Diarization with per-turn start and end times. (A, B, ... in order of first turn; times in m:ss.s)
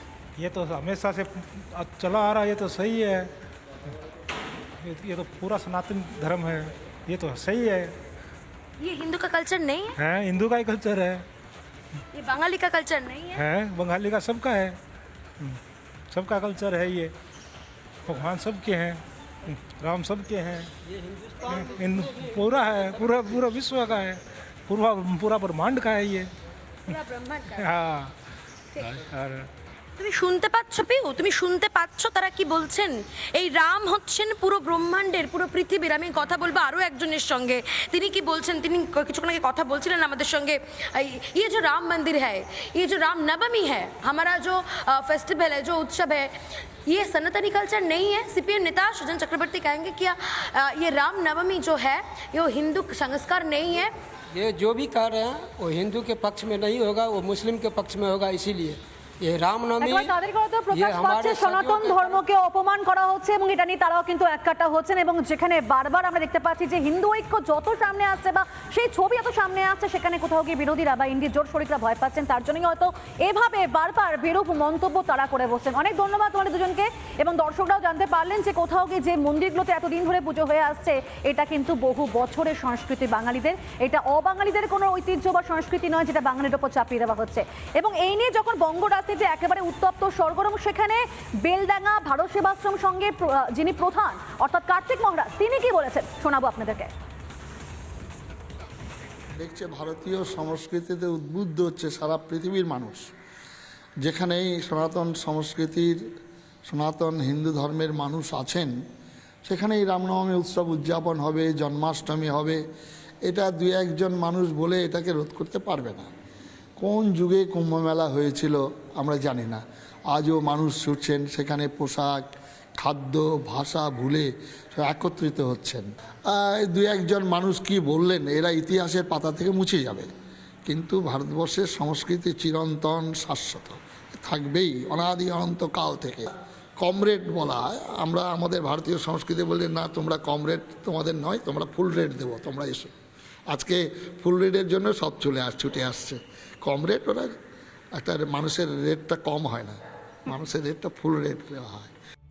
0:00.4-0:03.3 A
0:04.8-0:08.0 A
0:08.8-0:10.0 B
0:10.0-0:11.2 A
0:12.1-0:13.4 B
0:13.4-0:14.8 A
0:16.1-0:17.1 A
0:18.1-0:20.7 A
0:21.4-0:26.3 A
0:26.9-0:27.7 B
0:27.6-0:28.2 A
0:28.8-0:29.5 A
0:30.0-0:46.3 B
0:46.9-0:53.9 B
0:54.3-1:00.1 C
0:59.8-1:36.9 D
1:00.7-1:02.2 C
1:39.4-1:43.1 E
1:44.0-1:46.0 E
1:46.7-1:48.7 E
1:49.5-1:52.6 E
1:53.2-1:56.1 E
1:56.8-2:02.2 E
2:02.8-2:10.1 E
2:10.7-2:16.3 E
2:16.8-2:22.9 E
2:23.5-2:27.3 E
2:28.0-2:31.9 E